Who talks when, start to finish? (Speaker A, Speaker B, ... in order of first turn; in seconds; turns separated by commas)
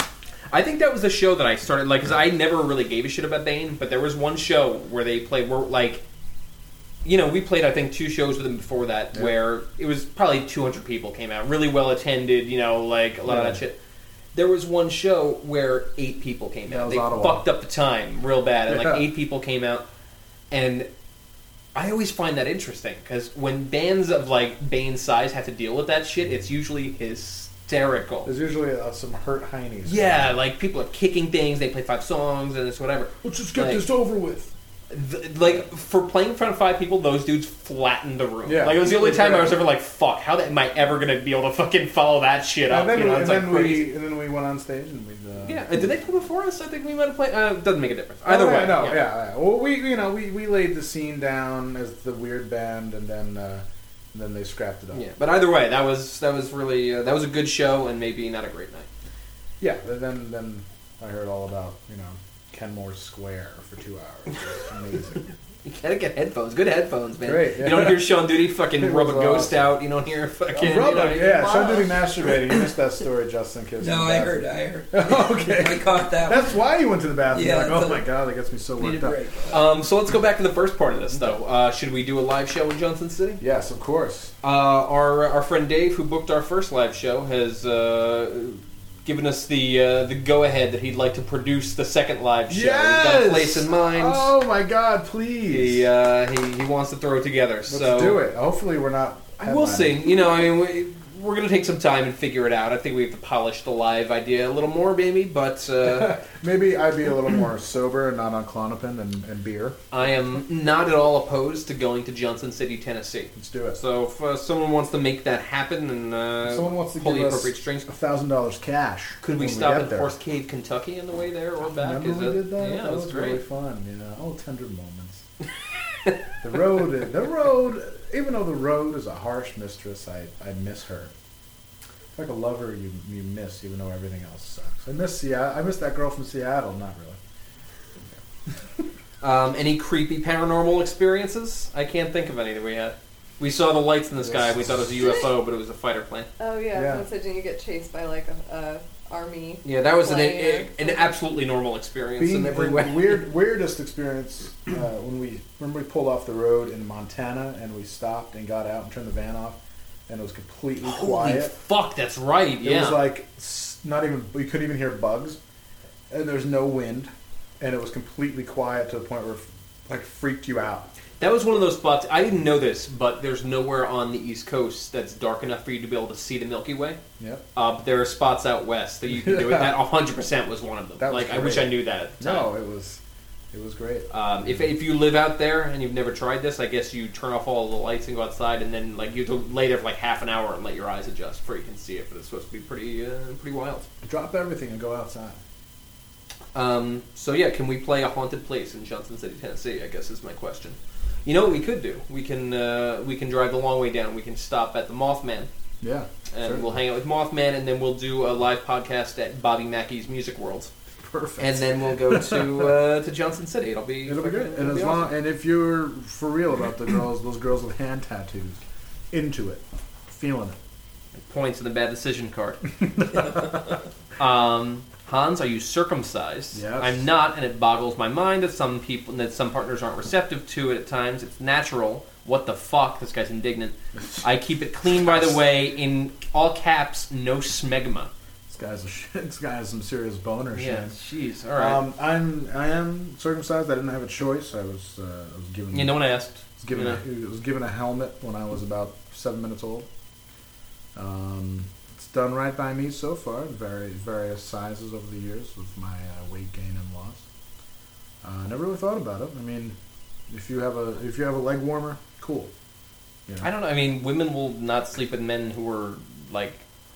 Speaker A: 0.5-6.0, Speaker A: 7.0-13.8, Speaker B: 13.2-13.6, Speaker A: 14.3-19.9, Speaker B: 16.7-17.5, Speaker B: 18.7-19.0, Speaker A: 20.5-20.9, Speaker A: 21.7-28.3, Speaker B: 28.2-30.3, Speaker A: 29.8-33.8, Speaker B: 33.2-34.5, Speaker A: 34.9-43.9, Speaker B: 38.4-39.6, Speaker B: 42.7-45.9, Speaker A: 45.4-49.0, Speaker B: 48.2-55.1, Speaker A: 54.9-58.9, Speaker B: 59.6-65.2, Speaker A: 65.6-71.5, Speaker B: 67.2-68.2, Speaker B: 68.8-69.8, Speaker B: 70.5-79.2, Speaker C: 73.8-76.5, Speaker C: 77.3-78.0, Speaker C: 78.8-79.6, Speaker A: 79.5-83.4, Speaker B: 83.4-84.3, Speaker A: 84.4-94.3, Speaker B: 92.5-95.8, Speaker A: 95.5-98.2, Speaker B: 97.7-100.1, Speaker A: 99.4-106.2, Speaker B: 105.8-109.8, Speaker A: 109.9-117.9, Speaker B: 113.3-113.8, Speaker B: 116.4-120.1, Speaker A: 119.2-123.4, Speaker B: 121.6-125.2, Speaker B: 126.4-131.1, Speaker B: 132.1-137.2, Speaker A: 139.2-146.3, Speaker B: 144.2-145.1, Speaker D: 146.4-151.1, Speaker B: 146.7-147.0, Speaker A: 149.6-153.2, Speaker B: 152.2-161.5, Speaker A: 160.8-163.0, Speaker B: 162.6-165.4, Speaker B: 166.1-170.9, Speaker A: 171.2-177.0, Speaker B: 177.2-177.4, Speaker A: 177.5-182.5, Speaker B: 179.1-179.8, Speaker B: 181.0-183.0, Speaker B: 183.5-184.7, Speaker A: 184.1-193.9, Speaker B: 194.0-195.4, Speaker A: 196.5-205.5, Speaker B: 205.8-206.8, Speaker A: 206.3-210.7, Speaker B: 211.0-212.7, Speaker A: 211.4-215.1, Speaker B: 214.0-218.6, Speaker B: 219.1-220.6, Speaker A: 221.2-222.6, Speaker C: 223.1-223.7, Speaker A: 224.2-238.1, Speaker B: 226.5-227.0, Speaker B: 234.0-234.2, Speaker B: 238.5-240.9, Speaker A: 240.5-241.8, Speaker B: 241.6-249.9, Speaker A: 245.7-247.0, Speaker B: 250.9-257.2, Speaker B: 258.2-259.8, Speaker B: 260.3-262.5, Speaker A: 263.4-266.6